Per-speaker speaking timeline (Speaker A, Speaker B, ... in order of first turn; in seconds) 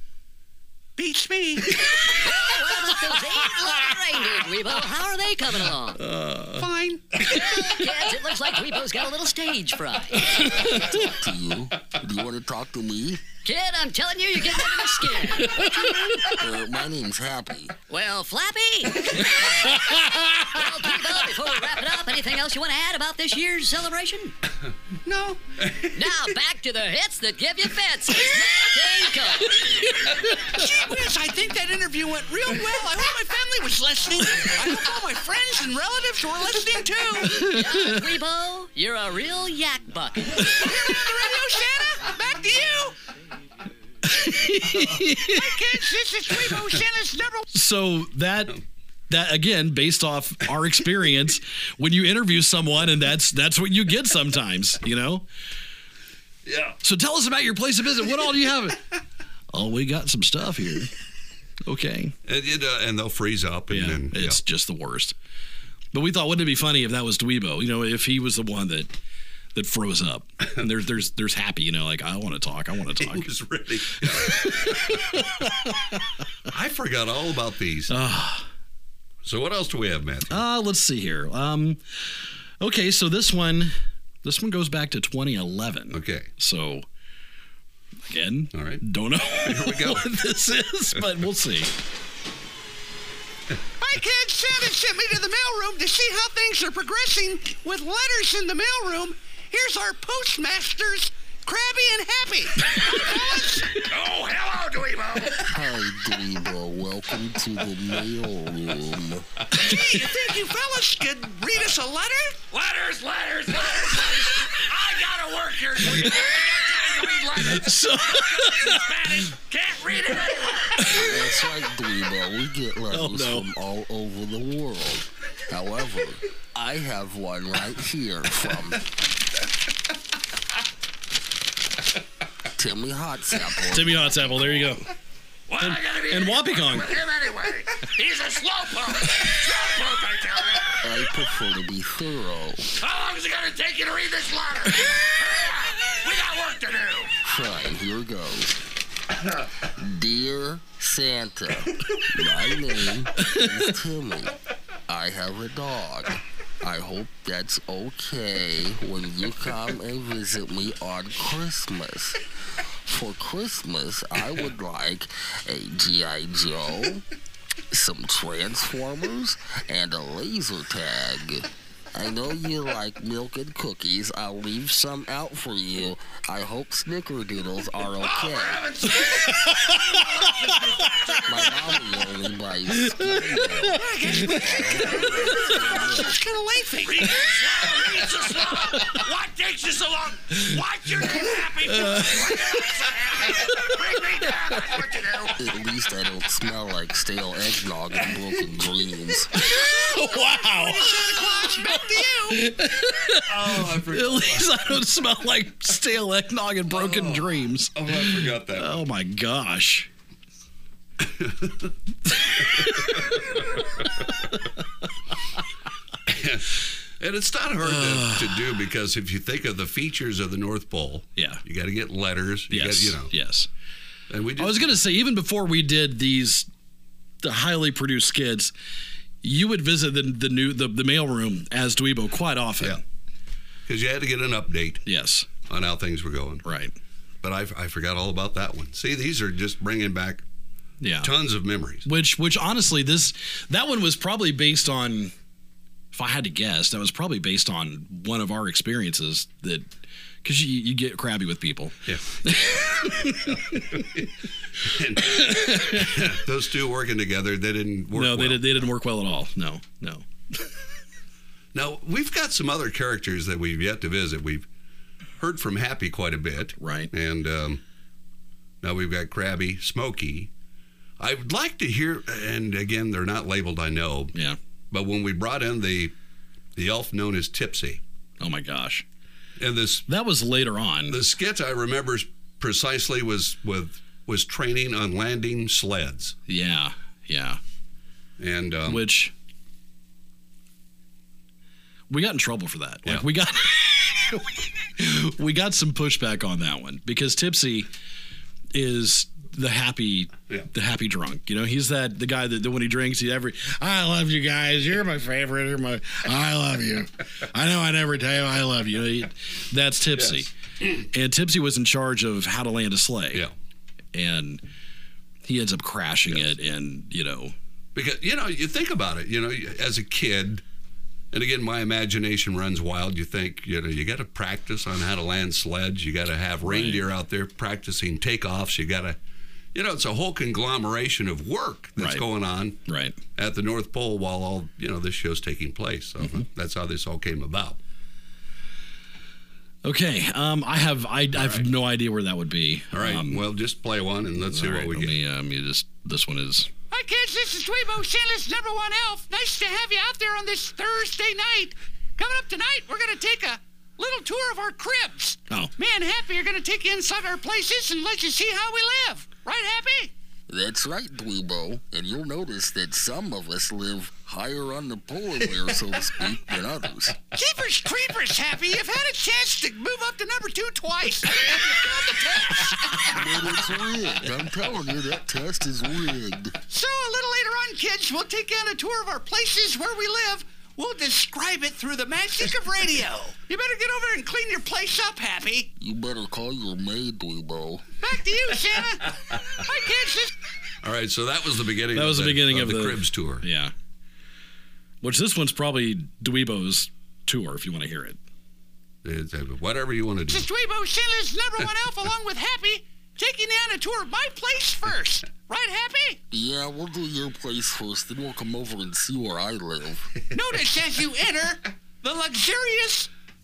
Speaker A: 1.0-1.8, 6.6-7.0, 25.1-25.4, 30.4-37.5, 40.4-43.0, 45.2-47.5, 93.8-103.8, 109.5-112.4, 183.7-187.1, 199.5-202.4, 346.7-359.9, 367.1-373.0, 376.5-385.5, 387.8-390.1, 400.1-406.0, 410.1-412.9
Speaker B: 2.0-6.0, 7.2-10.3, 13.4-15.8, 17.9-24.4, 25.9-29.8, 37.5-40.7
Speaker C: 6.0-6.7, 10.4-10.9, 15.4-16.1, 29.9-30.3, 37.3-38.0, 44.0-45.5, 47.5-48.6, 49.1-55.3, 56.8-58.8, 59.5-60.9, 61.6-62.1, 63.7-65.1, 65.9-68.9, 69.5-73.3, 74.0-76.0, 77.9-78.5, 80.3-81.8, 82.6-86.9, 88.1-91.7, 117.4-118.8, 122.9-123.5, 133.7-134.9, 135.6-136.9, 183.7-184.2, 191.7-192.2, 199.4-201.2, 202.3-209.9, 212.1-213.4, 217.6-218.4, 221.2-221.4, 222.5-223.5, 224.4-226.5, 227.2-228.5, 229.2-232.8, 234.8-235.3, 236.4-236.7, 240.8-241.1, 241.8-245.1, 245.9-249.7, 250.2-253.8, 255.1-256.1, 257.9-260.5, 266.6-266.9, 278.2-278.8, 279.9-281.0, 286.3-287.4, 288.7-289.1, 291.9-297.7, 298.5-313.3, 313.9-314.4, 315.2-317.4, 326.4-326.8, 331.8-332.1, 332.6-333.0, 339.6-343.2, 344.2-346.5, 391.7-393.5, 394.8-398.0
Speaker D: 10.3-13.3, 16.3-17.8, 105.5-109.3, 120.9-128.9, 132.6-134.8, 140.8-142.7, 147.2-148.6, 149.6-154.4, 154.9-162.2, 162.9-167.1, 167.7-178.7, 181.3-186.2, 195.4-199.4, 360.3-367.0, 372.9-376.4, 385.6-387.6, 406.1-409.9
Speaker E: 25.6-25.9, 56.5-56.8, 62.2-64.4, 73.0-75.0, 76.5-77.9, 79.2-80.4, 85.9-86.3, 88.5-90.1, 203.3-204.6, 206.7-208.9, 211.0-211.7, 216.1-223.1, 224.1-224.8, 233.7-234.8, 235.4-236.4, 237.2-240.2, 241.0-241.9, 251.9-252.2, 253.5-254.1, 254.6-258.6, 261.5-264.5, 265.2-267.6, 268.6-270.3, 271.0-274.1, 274.7-275.9, 276.6-277.8, 279.4-279.9, 280.9-286.2, 288.2-288.9, 309.9-310.8, 317.8-320.4, 321.1-329.0, 329.5-332.6, 333.1-337.6, 341.1-341.5, 342.7-345.0, 390.6-393.2, 398.8-400.3
Speaker F: 102.7-103.1, 103.8-105.5, 112.5-120.9, 135.5-140.8, 142.8-147.1, 178.0-181.5, 186.9-195.4